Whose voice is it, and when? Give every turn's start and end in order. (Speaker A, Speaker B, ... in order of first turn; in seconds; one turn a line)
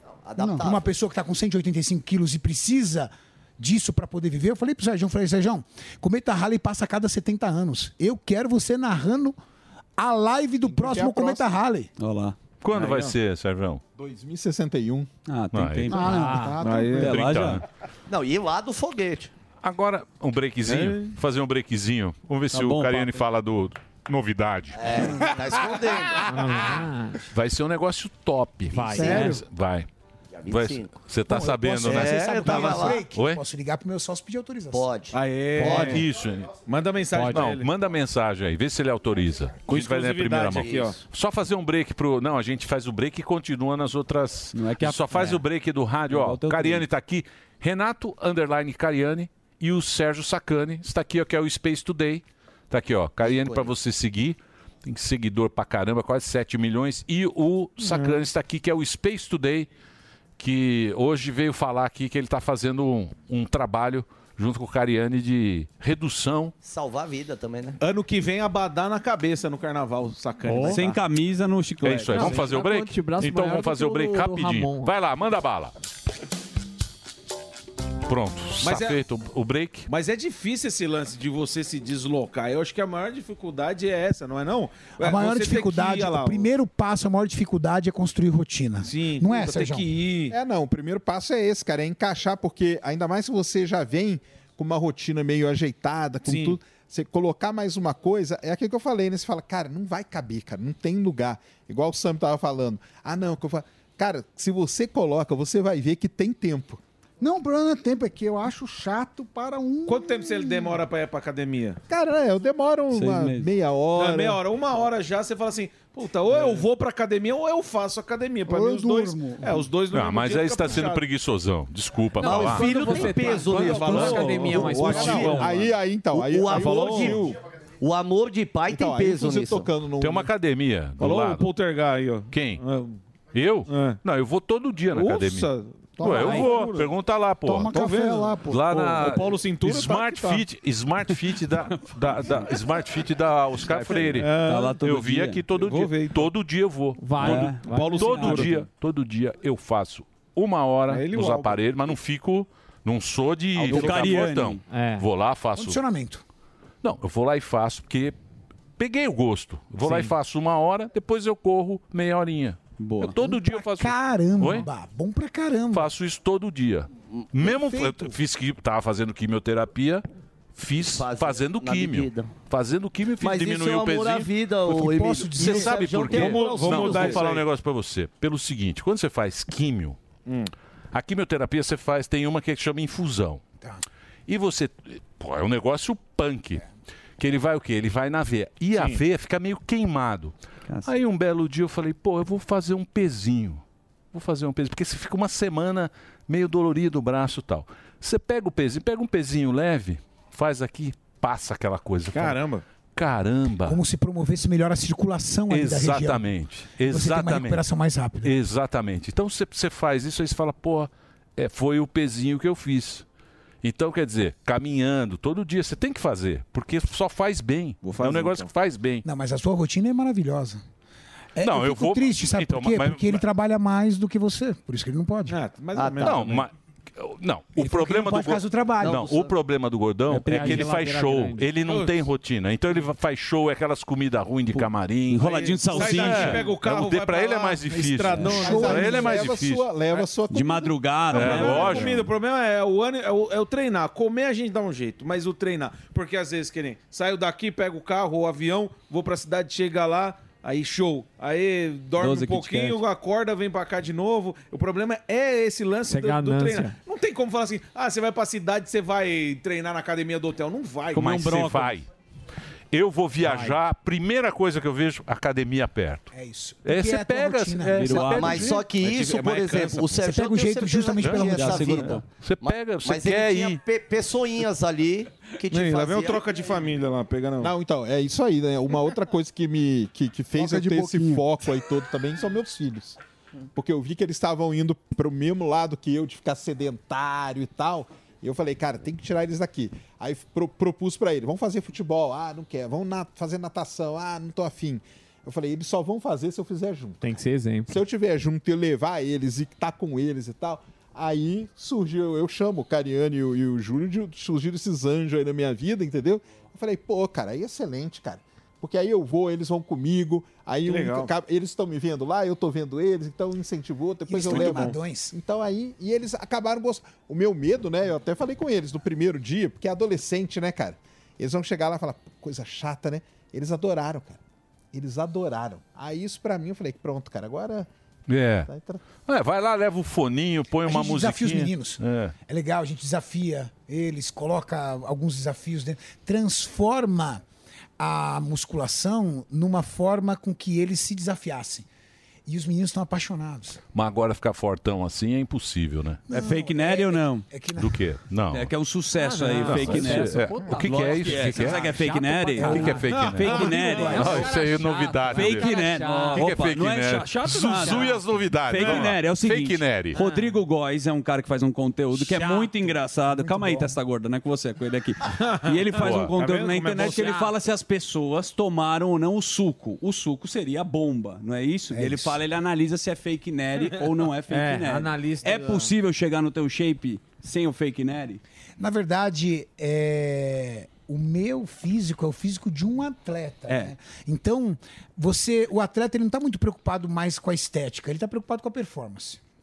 Speaker A: 0.2-0.9
Speaker B: 0.4-0.7
Speaker C: 0.6-9.3
Speaker C: 10.0-11.9
Speaker D: 10.7-11.5
Speaker E: 12.0-12.3
Speaker F: 12.6-13.8
Speaker G: 12.7-13.1
Speaker D: 14.0-15.1
Speaker E: 15.3-16.4
Speaker F: 15.5-16.1
Speaker B: 15.9-17.1
Speaker H: 16.0-16.6
Speaker G: 16.6-17.2
Speaker E: 16.9-17.6
Speaker F: 17.0-17.6
Speaker A: 18.1-19.3
Speaker F: 19.6-24.9
Speaker G: 20.7-21.1
Speaker E: 22.5-23.2
Speaker A: 24.8-26.3
Speaker G: 25.2-25.5
Speaker H: 26.3-27.2
Speaker F: 27.3-29.9
Speaker H: 28.7-29.4
Speaker B: 29.0-29.3
Speaker A: 30.3-30.9
Speaker F: 30.5-33.4
Speaker C: 31.2-34.9
Speaker A: 31.8-33.0
Speaker A: 34.7-36.0
Speaker G: 35.1-36.1
Speaker F: 35.6-36.6
Speaker G: 36.6-37.7
Speaker H: 37.1-37.4
Speaker F: 37.3-59.7
Speaker G: 39.6-41.0
Speaker A: 40.5-40.9
Speaker E: 44.5-45.4
Speaker E: 46.1-46.9
Speaker A: 53.2-53.7
Speaker G: 57.8-58.2
Speaker F: 60.4-66.5
Speaker A: 66.6-67.8
Speaker G: 67.8-71.0
Speaker H: 70.5-70.8
Speaker E: 70.6-72.4
Speaker F: 71.8-75.7
Speaker H: 72.1-74.9
Speaker F: 78.0-79.9
Speaker G: 78.6-79.0
Speaker G: 79.9-86.5
Speaker C: 85.0-89.9
Speaker G: 88.8-90.4
Speaker D: 90.3-106.8
Speaker G: 96.2-96.6
Speaker B: 107.2-110.8
Speaker G: 109.8-111.8
Speaker D: 111.9-114.4
Speaker E: 112.9-113.5
Speaker G: 113.9-121.1
Speaker B: 118.5-119.7
Speaker F: 119.9-122.7
Speaker H: 122.2-125.7
Speaker A: 122.2-125.5
Speaker G: 122.9-125.7
Speaker D: 125.0-127.3
Speaker A: 126.1-129.7
Speaker G: 126.4-127.3
Speaker D: 128.7-130.3
Speaker F: 130.0-131.5
Speaker G: 131.0-133.0
Speaker F: 132.3-132.6
Speaker F: 133.3-135.5
Speaker G: 133.7-134.0
Speaker G: 134.9-136.8
Speaker B: 136.0-136.8
Speaker F: 136.0-137.7
Speaker H: 136.2-136.6
Speaker B: 137.4-138.7
Speaker G: 137.7-140.4
Speaker F: 138.5-144.3
Speaker G: 143.7-144.8
Speaker E: 144.3-145.4
Speaker F: 144.8-147.5
Speaker G: 145.5-146.3
Speaker H: 147.0-148.5
Speaker E: 147.2-148.5
Speaker G: 147.2-148.6
Speaker F: 148.0-155.8
Speaker G: 150.9-151.6
Speaker E: 153.6-154.6
Speaker G: 153.7-154.1
Speaker H: 154.7-155.1
Speaker C: 155.5-156.2
Speaker F: 156.8-158.2
Speaker F: 158.8-164.7
Speaker H: 159.8-160.1
Speaker E: 162.8-163.2
Speaker C: 163.2-165.9
Speaker F: 165.7-174.3
Speaker C: 167.4-168.2
Speaker A: 170.8-172.3
Speaker A: 173.2-177.2
Speaker C: 174.7-175.9
Speaker F: 175.4-180.0
Speaker G: 175.9-177.5
Speaker G: 180.2-180.5
Speaker F: 180.9-183.4
Speaker F: 184.3-186.6
Speaker F: 187.2-202.4
Speaker G: 188.7-189.0
Speaker E: 190.7-190.9
Speaker G: 202.1-202.6
Speaker F: 202.9-203.8
Speaker C: 203.6-208.3
Speaker F: 205.5-207.6
Speaker F: 208.2-213.0
Speaker F: 213.6-219.0
Speaker G: 217.8-218.5
Speaker C: 219.0-220.6
Speaker C: 221.3-225.4
Speaker F: 221.4-223.2
Speaker G: 225.3-226.5
Speaker A: 225.7-226.2
Speaker F: 226.0-239.7
Speaker C: 227.6-229.1
Speaker A: 228.8-229.3
Speaker H: 230.1-231.5
Speaker E: 230.1-230.7
Speaker G: 231.6-232.0
Speaker E: 234.5-236.5
Speaker G: 235.2-239.2
Speaker E: 238.1-238.4
Speaker C: 238.4-239.2
Speaker D: 238.4-240.9
Speaker E: 240.3-242.0
Speaker F: 241.1-242.1
Speaker G: 241.1-261.2
Speaker E: 252.0-252.8
Speaker H: 255.9-256.7
Speaker E: 260.9-261.7
Speaker F: 260.9-261.9
Speaker F: 262.7-266.1
Speaker H: 263.2-263.6
Speaker C: 266.1-268.1
Speaker F: 266.6-268.6
Speaker E: 267.8-268.6
Speaker A: 268.0-276.2
Speaker G: 268.6-270.0
Speaker C: 270.0-272.0
Speaker F: 271.0-271.3
Speaker E: 271.3-272.0
Speaker F: 272.2-273.6
Speaker G: 275.5-277.5
Speaker D: 277.4-283.0
Speaker B: 280.3-281.3
Speaker D: 283.5-297.0
Speaker H: 297.0-297.7
Speaker D: 297.7-324.2
Speaker G: 310.6-311.1
Speaker C: 314.1-315.1
Speaker G: 314.2-314.8
Speaker D: 324.7-327.7
Speaker F: 328.1-328.5
Speaker D: 328.5-328.8
Speaker F: 329.0-332.1
Speaker C: 330.6-337.2
Speaker C: 337.8-341.6
Speaker C: 342.2-343.6
Speaker F: 343.7-346.0
Speaker C: 346.1-347.9
Speaker E: 346.1-347.2
Speaker F: 347.6-348.5
Speaker E: 348.3-354.4
Speaker H: 349.0-356.5
Speaker F: 349.4-351.7
Speaker F: 352.4-355.5
Speaker G: 352.9-353.9
Speaker E: 355.1-378.2
Speaker F: 356.1-360.0
Speaker H: 357.5-358.0
Speaker G: 358.5-359.0
Speaker H: 359.9-360.3
Speaker H: 362.0-362.7
Speaker C: 363.2-363.6
Speaker G: 365.2-367.1
Speaker F: 365.8-366.1
Speaker H: 366.8-367.3
Speaker C: 371.7-372.2
Speaker H: 374.3-375.7
Speaker C: 378.6-389.2
Speaker E: 383.5-383.7